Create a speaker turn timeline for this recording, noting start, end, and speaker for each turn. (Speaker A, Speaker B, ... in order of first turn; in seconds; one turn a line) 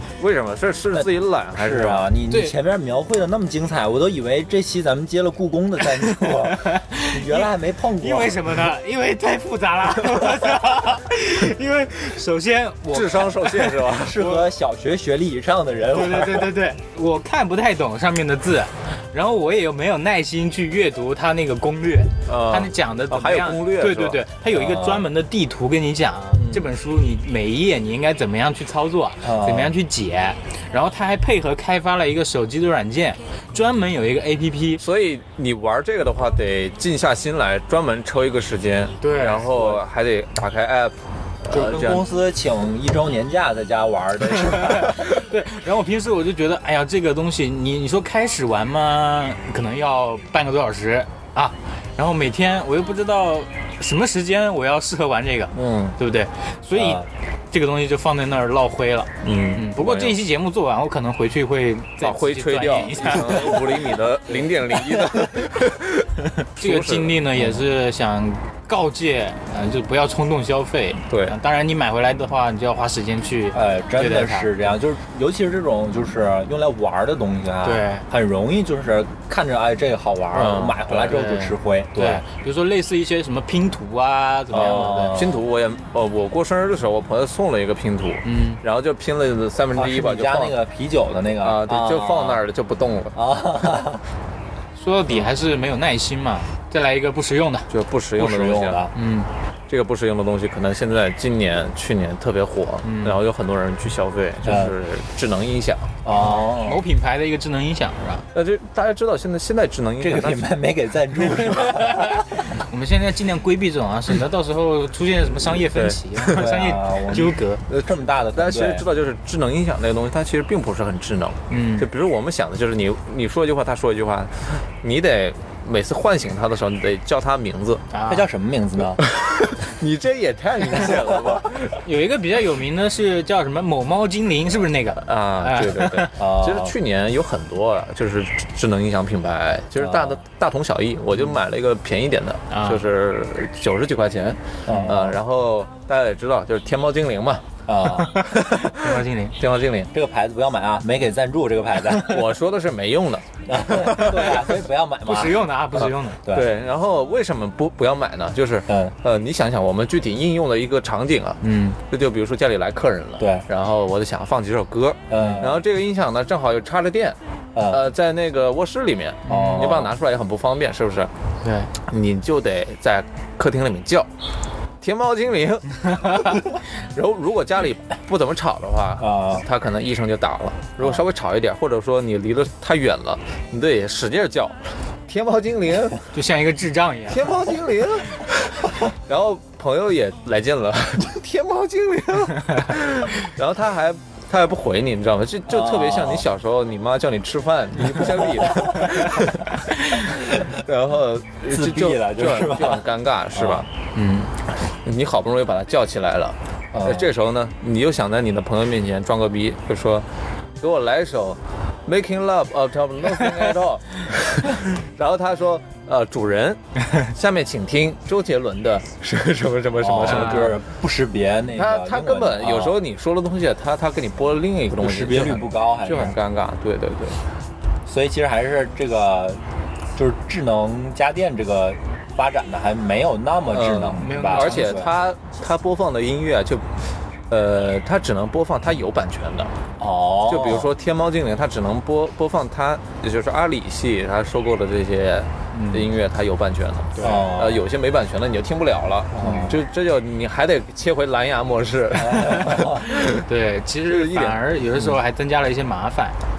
Speaker A: 0.2-2.1
Speaker B: 0.9-8.4
Speaker C: 2.3-2.5
Speaker C: 6.5-14.3
Speaker A: 12.9-14.3
Speaker B: 13.9-16.5
Speaker C: 15.9-34.8
Speaker A: 22.3-24.2
Speaker B: 24.5-25.1
Speaker A: 26.3-26.7
Speaker B: 29.2-29.7
Speaker A: 34.8-42.0
Speaker C: 39.0-39.7
Speaker B: 41.5-45.1
Speaker C: 44.4-63.7
Speaker A: 55.5-56.0
Speaker B: 56.8-57.1
Speaker A: 59.2-60.2
Speaker A: 62.0-67.2
Speaker C: 66.4-74.5
Speaker A: 71.1-71.4
Speaker B: 73.5-82.2
Speaker C: 77.6-78.0
Speaker A: 80.3-81.2
Speaker C: 81.1-85.2
Speaker B: 84.5-85.4
Speaker A: 84.5-90.5
Speaker C: 88.2-88.6
Speaker B: 89.8-92.4
Speaker A: 91.4-93.2
Speaker B: 93.2-94.0
Speaker C: 94.8-97.7
Speaker A: 97.7-98.9
Speaker B: 98.2-98.9
Speaker C: 98.9-99.3
Speaker A: 99.7-105.9
Speaker C: 102.8-103.2
Speaker B: 104.5-104.8
Speaker B: 106.0-106.8
Speaker C: 106.1-108.3
Speaker A: 108.3-110.5
Speaker B: 110.0-112.2
Speaker C: 111.4-117.6
Speaker A: 115.7-116.4
Speaker B: 116.4-118.8
Speaker A: 117.1-127.8
Speaker C: 121.5-121.9
Speaker C: 127.9-128.3
Speaker B: 128.1-129.0
Speaker A: 129.0-131.8
Speaker C: 131.8-136.1
Speaker A: 135.0-147.5
Speaker B: 136.2-136.8
Speaker B: 139.8-140.2
Speaker C: 142.5-142.8
Speaker B: 144.7-145.2
Speaker C: 144.7-144.9
Speaker B: 147.7-148.2
Speaker C: 148.1-149.4
Speaker A: 148.3-149.9
Speaker B: 149.9-152.2
Speaker A: 152.0-154.4
Speaker B: 153.5-155.4
Speaker C: 155.1-156.2
Speaker A: 155.8-167.2
Speaker B: 156.2-156.5
Speaker B: 158.7-159.0
Speaker C: 161.4-161.8
Speaker B: 163.2-163.5
Speaker B: 165.1-165.6
Speaker B: 167.6-167.8
Speaker A: 167.7-171.1
Speaker C: 169.3-169.7
Speaker B: 169.3-169.9
Speaker C: 171.4-171.7
Speaker A: 171.9-174.1
Speaker A: 174.8-186.0
Speaker B: 179.0-179.5
Speaker C: 186.1-187.2
Speaker A: 187.1-203.7
Speaker B: 195.5-196.3
Speaker B: 198.0-198.9
Speaker B: 201.5-203.7
Speaker C: 203.9-204.3
Speaker A: 204.8-210.1
Speaker B: 206.7-207.1
Speaker A: 210.6-220.6
Speaker B: 219.8-222.8
Speaker C: 220.1-220.5
Speaker A: 221.6-227.2
Speaker B: 224.8-226.2
Speaker B: 227.9-229.4
Speaker B: 229.9-234.9
Speaker A: 233.5-236.7
Speaker C: 234.0-234.8
Speaker A: 237.3-239.5
Speaker B: 239.8-240.7
Speaker A: 240.3-253.2
Speaker C: 245.5-245.9
Speaker C: 247.0-247.3
Speaker B: 247.0-247.7
Speaker B: 249.2-249.6
Speaker B: 252.0-252.9
Speaker C: 253.2-256.2
Speaker A: 253.9-254.9